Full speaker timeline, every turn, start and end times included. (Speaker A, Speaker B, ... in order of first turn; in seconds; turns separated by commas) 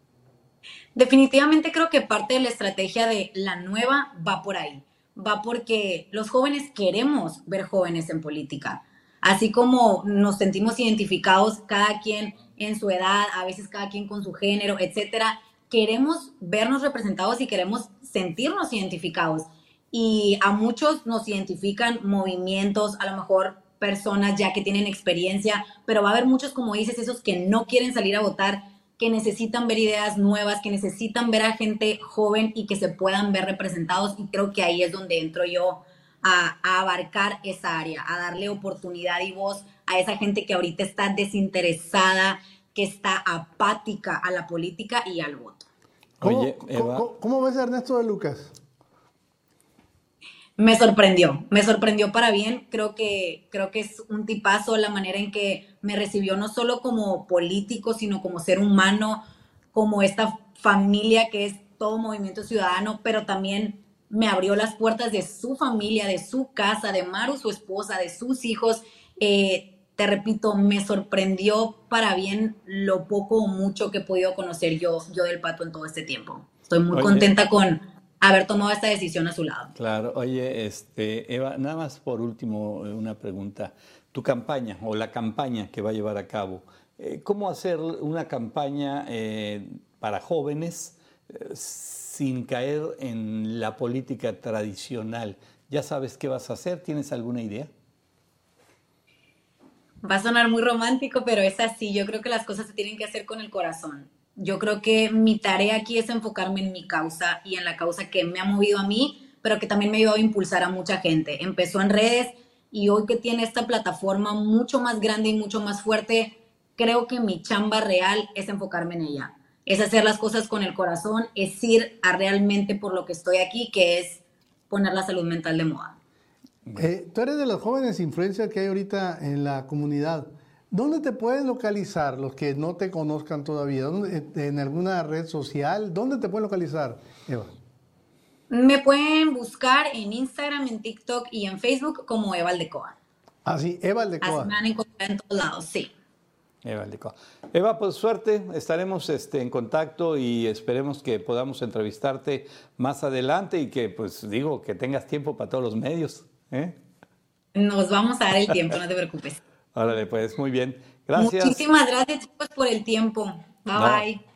Speaker A: 0.9-45.6, Speaker B: 46.2-47.1, Speaker C: 46.2-48.5, Speaker A: 50.6-59.2, Speaker A: 59.7-79.7, Speaker B: 76.9-77.3, Speaker B: 79.7-97.7, Speaker A: 100.0-126.0, Speaker C: 126.8-137.5, Speaker A: 138.5-142.9, Speaker C: 143.4-144.5, Speaker A: 144.2-145.9, Speaker B: 146.6-156.8, Speaker A: 157.5-159.4, Speaker B: 159.7-161.6, Speaker A: 161.2-164.2, Speaker B: 163.7-164.0